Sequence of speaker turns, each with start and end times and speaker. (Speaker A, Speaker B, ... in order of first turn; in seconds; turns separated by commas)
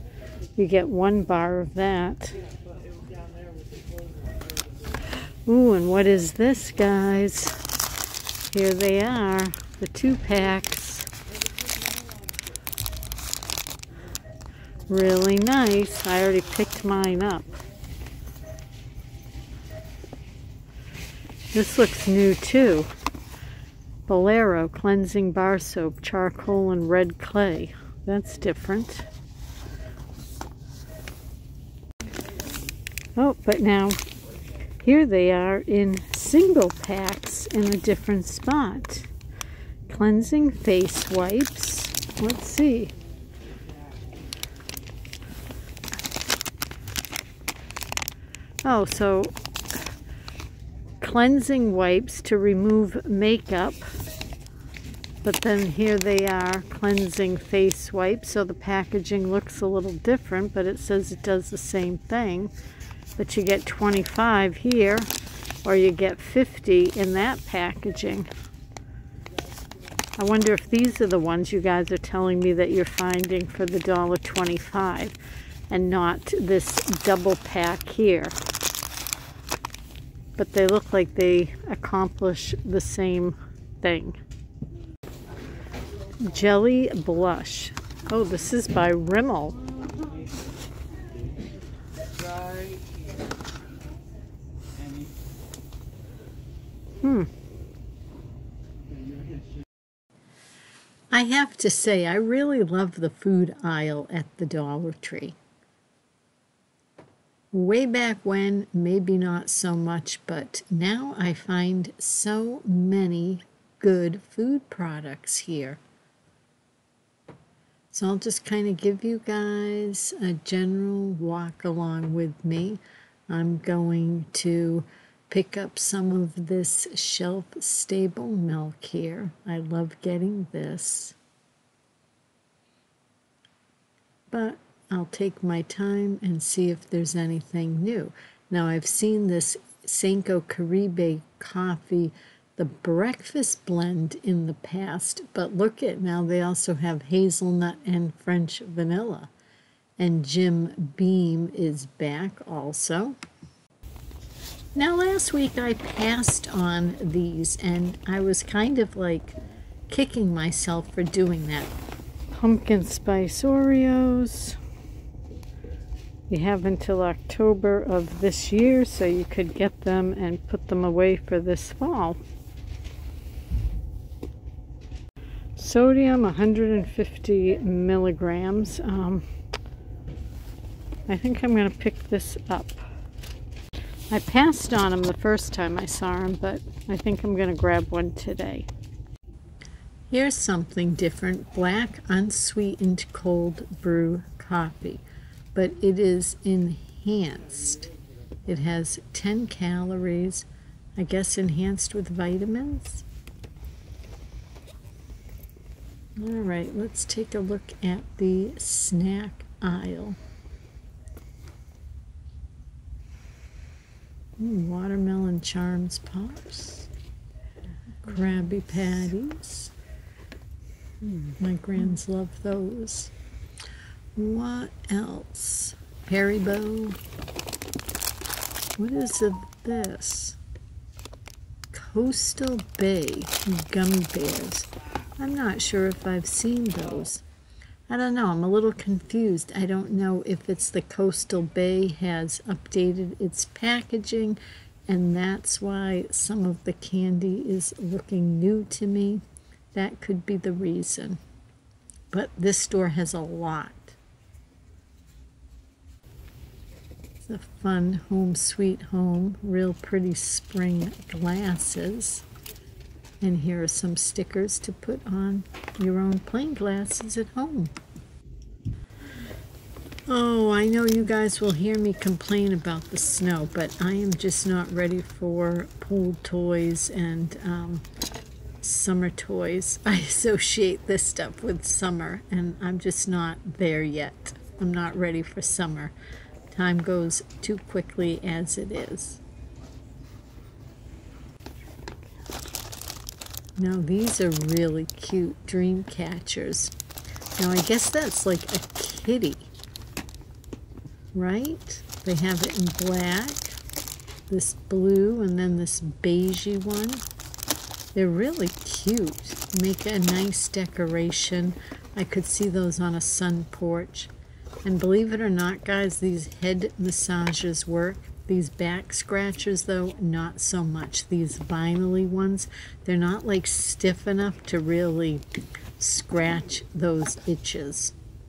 Speaker A: 0.6-2.4, Speaker A: 5.5-7.6, Speaker A: 8.5-11.1, Speaker A: 14.9-17.5, Speaker A: 21.5-22.9, Speaker A: 24.1-29.1, Speaker A: 33.1-34.0, Speaker A: 34.8-39.1, Speaker A: 39.9-42.9, Speaker A: 48.6-49.9, Speaker A: 51.0-53.9, Speaker A: 55.2-62.5, Speaker A: 63.2-65.1, Speaker A: 65.6-68.3, Speaker A: 70.2-75.2, Speaker A: 75.7-78.3, Speaker A: 80.4-84.2, Speaker A: 86.2-89.6, Speaker A: 97.0-97.3, Speaker A: 101.1-105.3, Speaker A: 107.5-115.8, Speaker A: 117.9-131.2, Speaker A: 134.3-149.3, Speaker A: 150.0-153.2, Speaker A: 154.7-159.3, Speaker A: 159.9-161.7, Speaker A: 162.3-164.6, Speaker A: 166.3-172.2, Speaker A: 175.6-179.3, Speaker A: 181.1-182.9, Speaker A: 184.1-188.7, Speaker A: 190.1-195.0, Speaker A: 195.5-197.9, Speaker A: 198.4-203.0, Speaker A: 206.2-210.2, Speaker A: 214.4-216.9, Speaker A: 218.0-219.7, Speaker A: 221.2-223.1, Speaker A: 224.1-227.0, Speaker A: 228.8-230.4, Speaker A: 231.7-237.2, Speaker A: 237.9-249.2, Speaker A: 249.7-251.2, Speaker A: 252.1-254.0, Speaker A: 257.2-262.2, Speaker A: 263.2-267.7, Speaker A: 270.1-277.8, Speaker A: 278.6-285.9, Speaker A: 286.5-289.2, Speaker A: 293.6-296.7, Speaker A: 297.4-299.5, Speaker A: 301.1-303.6, Speaker A: 304.3-307.0, Speaker A: 307.9-314.1, Speaker A: 314.6-325.2, Speaker A: 325.8-327.9